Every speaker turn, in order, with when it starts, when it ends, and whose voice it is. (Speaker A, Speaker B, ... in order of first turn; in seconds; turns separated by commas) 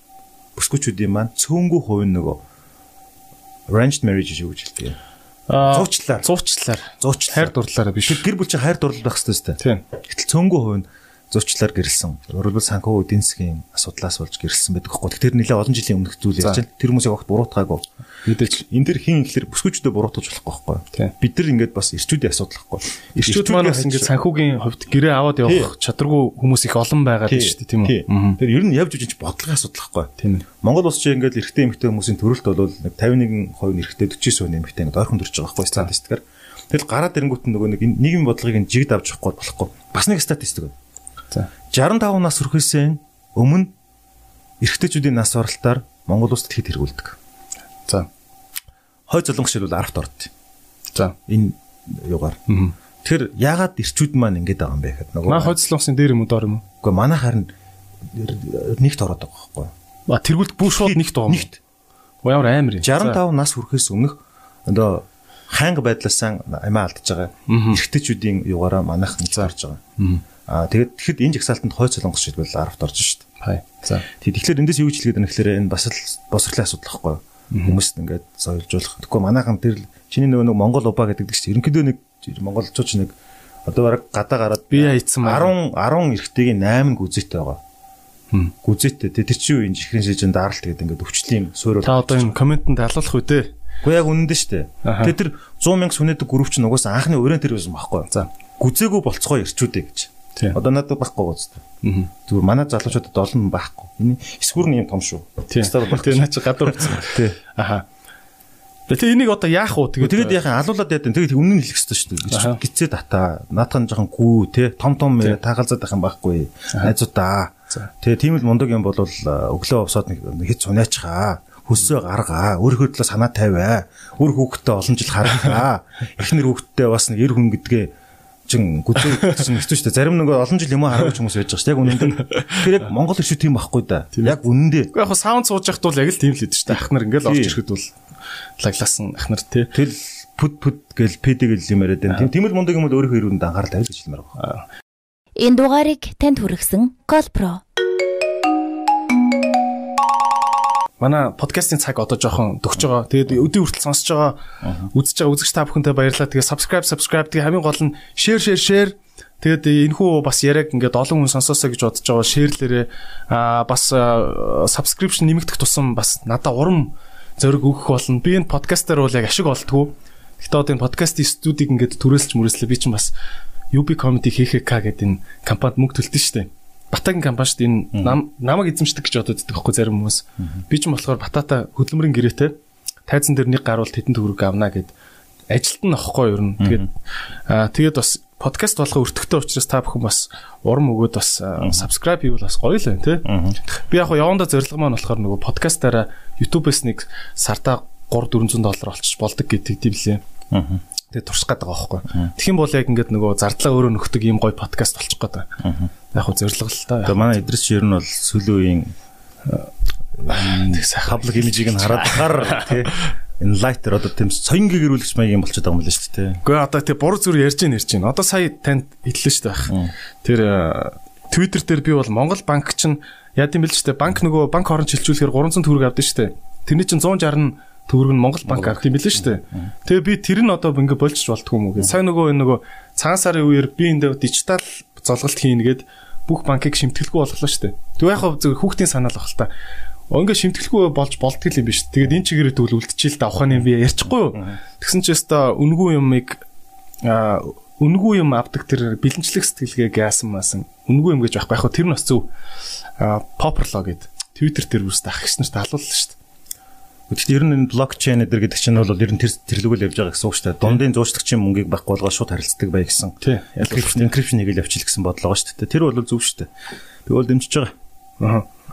Speaker A: 0.6-2.4, Speaker A: 3.7-5.0, Speaker B: 5.5-8.2, Speaker A: 5.6-6.3, Speaker A: 7.0-17.9, Speaker B: 18.2-18.6, Speaker A: 18.4-24.1, Speaker B: 23.1-28.4, Speaker A: 25.4-25.7, Speaker A: 27.3-40.7, Speaker B: 30.2-30.4, Speaker A: 41.7-43.7, Speaker A: 44.6-47.2, Speaker A: 49.1-50.3, Speaker A: 51.3-52.4, Speaker B: 52.5-52.7, Speaker A: 53.0-55.5, Speaker B: 55.2-56.6, Speaker A: 56.8-57.5, Speaker A: 58.1-59.7, Speaker B: 60.1-61.5, Speaker A: 60.6-61.6, Speaker B: 62.2-63.2, Speaker A: 62.8-69.8, Speaker B: 67.5-67.8, Speaker B: 69.4-70.2, Speaker A: 70.5-73.3, Speaker B: 73.4-74.1, Speaker A: 74.1-83.1, Speaker B: 77.5-77.8, Speaker A: 83.7-87.6, Speaker B: 84.7-85.5, Speaker A: 88.6-92.3, Speaker B: 91.8-93.5, Speaker A: 93.8-101.6, Speaker B: 94.8-95.1, Speaker B: 101.8-102.1, Speaker A: 102.3-107.4, Speaker B: 105.5-107.9, Speaker B: 108.9-110.4, Speaker A: 110.0-127.9, Speaker B: 112.3-112.6, Speaker A: 128.5-134.9, Speaker B: 129.2-129.4, Speaker B: 131.9-132.8, Speaker B: 134.9-137.9, Speaker A: 137.2-137.6, Speaker B: 138.6-139.7, Speaker A: 139.7-144.4, Speaker B: 144.4-144.6, Speaker C: 145.3-147.6, Speaker B: 151.0-173.1, Speaker A: 154.6-154.9, Speaker B: 173.7-182.5, Speaker B: 183.1-184.9, Speaker B: 185.5-186.9, Speaker B: 187.5-200.2, Speaker A: 193.2-193.6, Speaker A: 200.5-200.8, Speaker B: 201.1-205.5, Speaker A: 205.6-205.9, Speaker B: 206.1-207.4, Speaker A: 207.0-208.9, Speaker A: 210.2-216.4, Speaker B: 210.2-213.1, Speaker B: 216.4-239.5, Speaker A: 219.7-219.9, Speaker A: 228.5-228.8, Speaker B: 240.1-246.4, Speaker B: 247.0-252.3, Speaker B: 253.0-256.2, Speaker A: 257.1-266.5, Speaker B: 263.2-264.1, Speaker A: 267.1-267.7, Speaker B: 268.2-268.5